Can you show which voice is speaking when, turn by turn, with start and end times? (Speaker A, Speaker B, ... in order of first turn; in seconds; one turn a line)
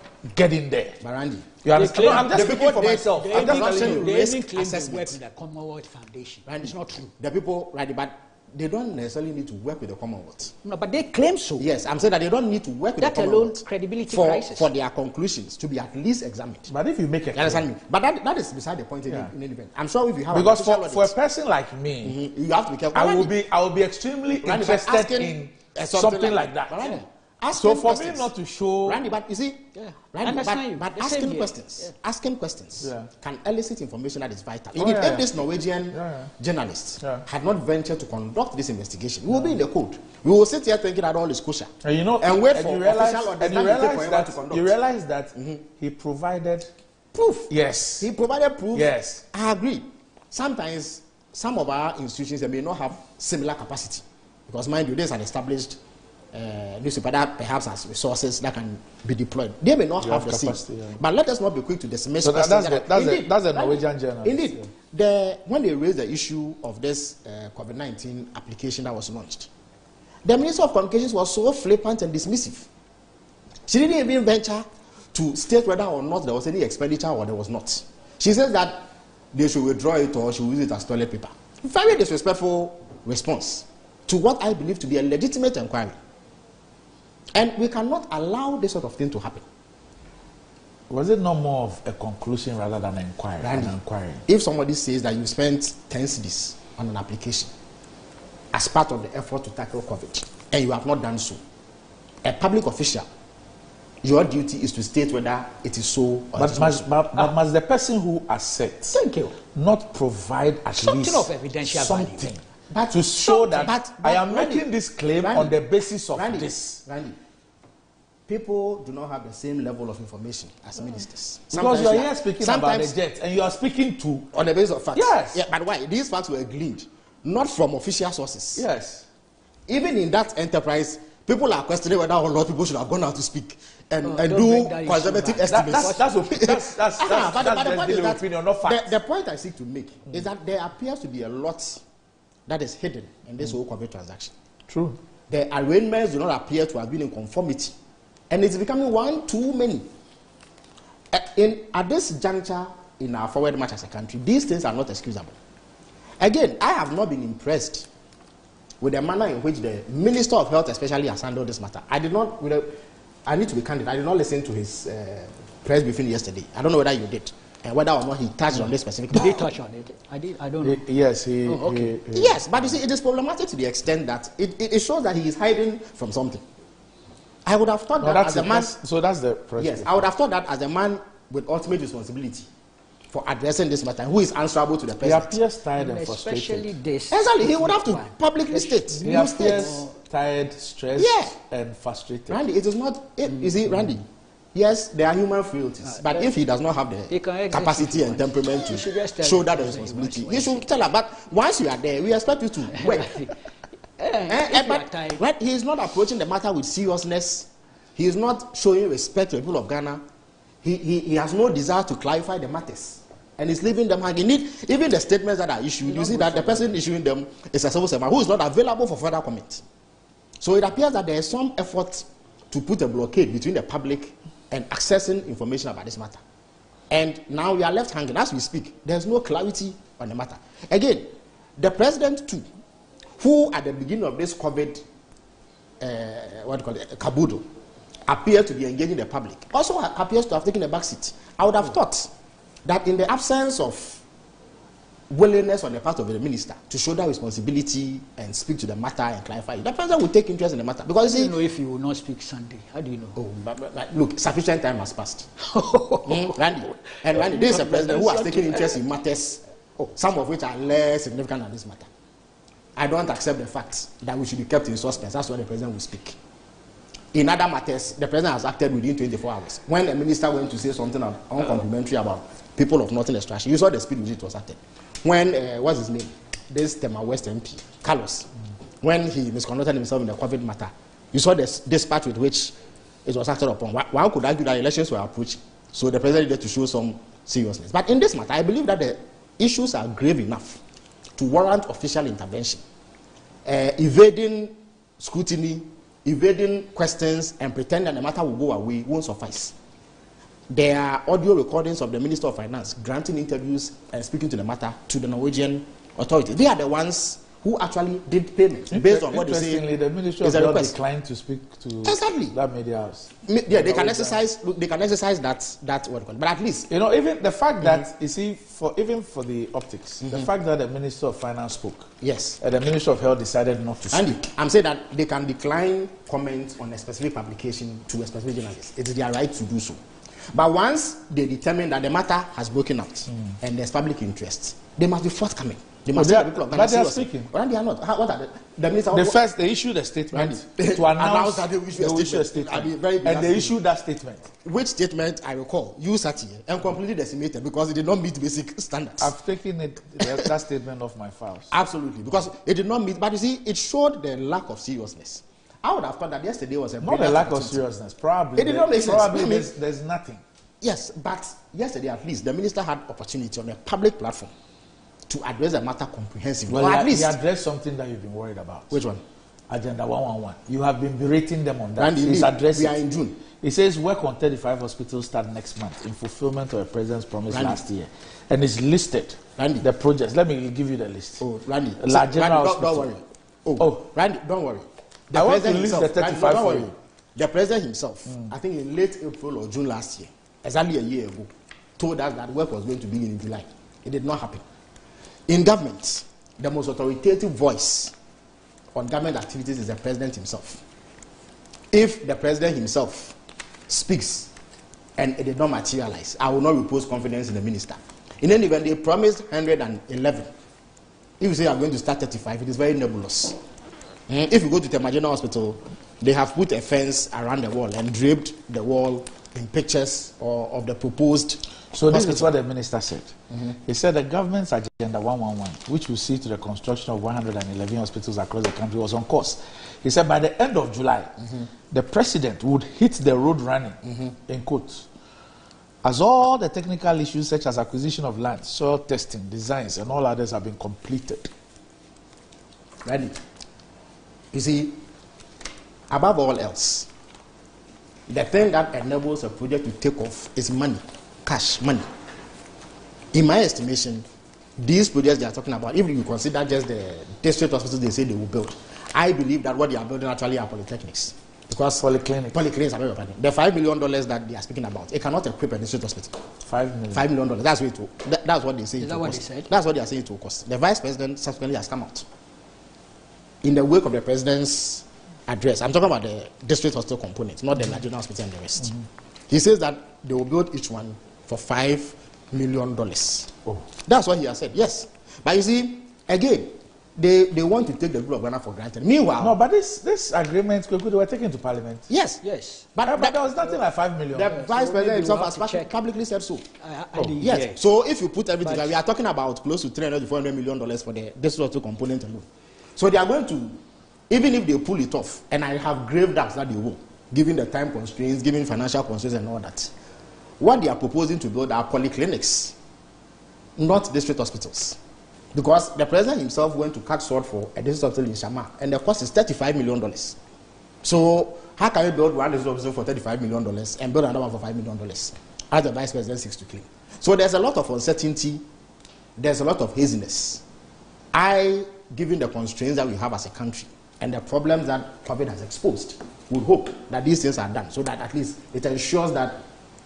Speaker A: 0.2-1.0
Speaker B: 1.0-5.2
Speaker A: 1.6-4.2
Speaker C: 1.7-7.1
Speaker B: 6.5-10.5
Speaker C: 10.6-11.7
Speaker B: 11.6-16.7
Speaker C: 13.0-14.7
Speaker A: 16.7-17.7
Speaker B: 17.3-21.1
Speaker A: 20.3-22.2
Speaker B: 22.0-23.3
Speaker A: 22.9-26.9
Speaker B: 24.4-28.3
Speaker A: 27.5-29.0
Speaker B: 28.8-44.7
Speaker C: 29.8-31.9
Speaker A: 32.8-33.1
Speaker A: 34.8-35.3
Speaker A: 35.9-36.3
Speaker A: 37.0-37.3
Speaker A: 41.8-46.7
Speaker B: 45.4-45.6
Speaker B: 47.1-55.8
Speaker A: 47.5-48.1
Speaker A: 48.7-49.2
Speaker B: 56.3-69.5
Speaker A: 60.0-61.0
Speaker A: 62.2-64.7
Speaker B: 70.2-72.7
Speaker B: 73.7-86.0
Speaker B: 87.3-89.5
Speaker A: 90.9-94.2
Speaker B: 93.4-93.8
Speaker B: 94.3-97.5
Speaker B: 98.5-101.4
Speaker B: 102.2-103.1
Speaker B: 104.0-106.9
Speaker A: 106.3-109.0
Speaker C: 108.9-109.3
Speaker A: 109.5-116.8
Speaker C: 110.7-112.3
Speaker B: 112.7-117.2
Speaker B: 118.3-123.0
Speaker A: 121.5-124.4
Speaker B: 124.3-128.7
Speaker A: 125.0-125.4
Speaker A: 128.6-129.1
Speaker B: 129.7-141.8
Speaker C: 134.0-136.1
Speaker A: 135.4-138.9
Speaker B: 142.5-144.3
Speaker A: 144.7-145.0
Speaker B: 145.3-147.8
Speaker B: 148.3-149.9
Speaker B: 151.1-155.4
Speaker B: 156.2-157.9
Speaker B: 158.8-169.4
Speaker C: 168.6-171.9
Speaker A: 170.6-172.7
Speaker B: 172.1-176.4
Speaker B: 177.4-178.7
Speaker A: 178.0-180.1
Speaker B: 179.6-182.5
Speaker B: 183.1-185.4
Speaker A: 185.0-186.7
Speaker C: 185.7-190.0
Speaker B: 187.1-189.7
Speaker A: 189.0-192.4
Speaker B: 191.0-191.3
Speaker B: 192.3-203.2
Speaker C: 193.2-193.9
Speaker C: 195.8-196.3
Speaker C: 197.1-200.7
Speaker C: 202.7-203.3
Speaker C: 204.0-205.3
Speaker B: 204.3-210.0
Speaker B: 210.6-219.6
Speaker C: 215.8-216.8
Speaker B: 220.4-226.2
Speaker B: 226.9-232.5
Speaker B: 233.2-234.8
Speaker B: 235.8-237.5
Speaker B: 238.1-242.1
Speaker B: 242.7-244.0
Speaker B: 245.1-251.3
Speaker C: 250.8-253.2
Speaker B: 253.2-255.3
Speaker C: 255.4-259.0
Speaker B: 256.1-261.9
Speaker B: 262.8-266.2
Speaker B: 267.1-278.3
Speaker B: 278.8-290.6
Speaker B: 291.2-292.6
Speaker B: 293.4-299.6
Speaker B: 300.5-309.7
Speaker A: 308.7-314.2
Speaker B: 310.2-310.8
Speaker B: 311.8-312.4
Speaker B: 313.2-316.7
Speaker A: 316.7-324.2
Speaker B: 322.0-322.4
Speaker B: 323.9-329.8
Speaker B: 330.3-339.3
Speaker A: 335.9-337.3
Speaker A: 338.9-344.3
Speaker B: 340.1-343.6
Speaker B: 344.4-349.1
Speaker A: 349.0-351.5
Speaker B: 350.0-350.3
Speaker B: 351.5-357.6
Speaker A: 356.8-360.2
Speaker B: 358.4-359.5
Speaker B: 360.6-364.3
Speaker B: 365.1-367.2
Speaker A: 366.5-368.8
Speaker B: 368.7-369.0
Speaker A: 369.5-381.2
Speaker B: 371.8-373.2
Speaker B: 377.3-377.6
Speaker B: 379.4-379.7
Speaker B: 381.2-394.4
Speaker A: 381.8-382.9
Speaker A: 385.1-386.7
Speaker B: 395.3-397.9
Speaker B: 398.8-400.6
Speaker B: 401.7-403.1
Speaker B: 403.7-404.3
Speaker B: 405.0-410.3
Speaker B: 411.2-413.4
Speaker B: 414.1-422.3
Speaker A: 421.7-423.1
Speaker A: 423.7-431.2
Speaker B: 431.2-431.5
Speaker A: 431.7-434.9
Speaker B: 433.9-434.1
Speaker A: 435.8-441.3
Speaker B: 442.9-443.2
Speaker B: 444.3-444.8
Speaker B: 445.9-446.9
Speaker B: 448.1-451.9
Speaker B: 453.1-454.1
Speaker B: 454.6-466.2
Speaker A: 461.5-462.4
Speaker A: 466.4-467.0
Speaker B: 466.9-472.1
Speaker C: 468.8-469.5
Speaker B: 473.4-478.7
Speaker B: 479.3-489.4
Speaker A: 489.2-491.9
Speaker B: 491.9-492.2
Speaker C: 492.2-492.7
Speaker B: 492.7-493.3
Speaker A: 492.9-494.4
Speaker B: 494.1-496.4
Speaker C: 494.2-495.8
Speaker C: 496.6-497.6
Speaker B: 497.2-509.7
Speaker C: 498.4-498.8
Speaker B: 510.4-512.6
Speaker B: 513.6-514.8
Speaker B: 515.3-520.2
Speaker B: 520.8-528.4
Speaker B: 529.2-530.4
Speaker B: 531.1-539.4